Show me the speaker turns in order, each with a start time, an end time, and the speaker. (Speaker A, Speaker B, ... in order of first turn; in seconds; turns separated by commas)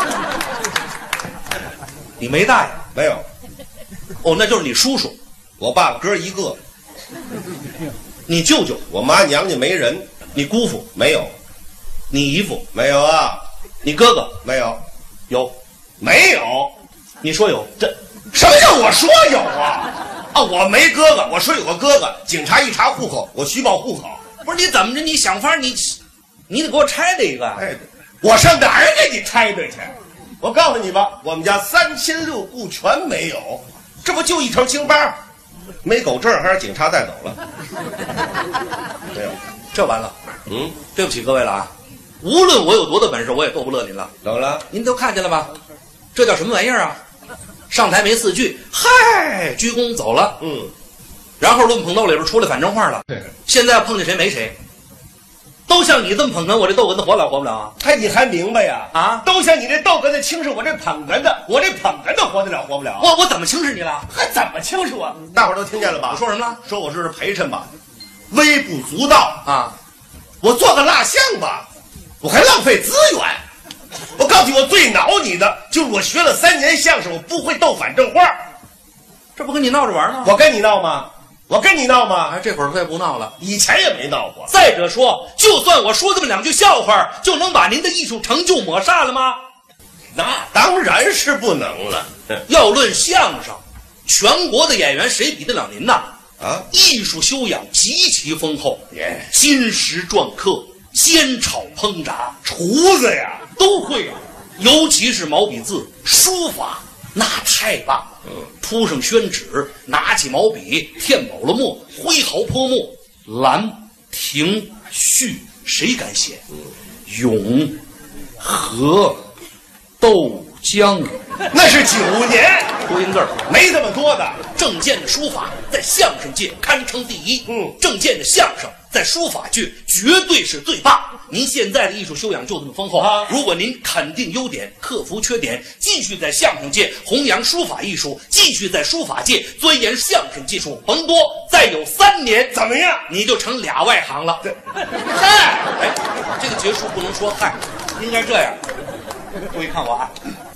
Speaker A: 2.2-2.8, Speaker B: 2.9-3.2, Speaker A: 4.2-5.2, Speaker B: 5.6-6.6, Speaker A: 8.3-8.8, Speaker B: 8.9-11.3, Speaker A: 10.4-10.8, Speaker A: 12.1-12.7, Speaker B: 12.7-13.4, Speaker A: 13.8-14.4, Speaker B: 14.4-14.8, Speaker B: 16.0-16.7, Speaker A: 17.2-17.9, Speaker B: 18.3-24.2, Speaker A: 24.4-26.0, Speaker A: 26.5-27.6, Speaker B: 27.6-35.2, Speaker B: 35.8-37.4, Speaker A: 39.7-40.2, Speaker B: 40.5-40.8, Speaker A: 40.9-41.7, Speaker A: 42.2-44.1, Speaker B: 44.2-44.6, Speaker A: 44.7-45.5, Speaker A: 46.1-47.0, Speaker A: 47.7-50.4, Speaker B: 50.4-50.7, Speaker A: 51.4-54.6, Speaker A: 55.7-57.7, Speaker B: 57.8-63.1, Speaker A: 58.9-59.2, Speaker A: 63.0-64.1, Speaker B: 64.1-67.7, Speaker A: 66.1-66.6, Speaker B: 68.3-69.4, Speaker A: 69.5-69.8, Speaker B: 70.4-71.7, Speaker B: 72.2-73.4, Speaker B: 74.2-78.4, Speaker A: 79.4-80.3, Speaker B: 80.2-82.4, Speaker A: 82.3-83.3, Speaker B: 83.4-84.5, Speaker A: 84.5-89.4, Speaker B: 90.1-92.3, Speaker A: 92.5-96.1, Speaker B: 96.4-96.7, Speaker A: 96.7-102.5, Speaker B: 102.5-103.5, Speaker A: 103.6-116.4, Speaker A: 117.1-117.8, Speaker A: 118.4-119.2, Speaker A: 120.0-121.2, Speaker B: 121.5-122.8, Speaker A: 122.8-123.4, Speaker B: 123.5-124.4, Speaker A: 124.5-142.6, Speaker B: 127.5-127.8, Speaker B: 133.0-133.3, Speaker B: 142.5-143.1, Speaker A: 143.1-144.4, Speaker A: 145.1-148.6, Speaker A: 149.5-150.1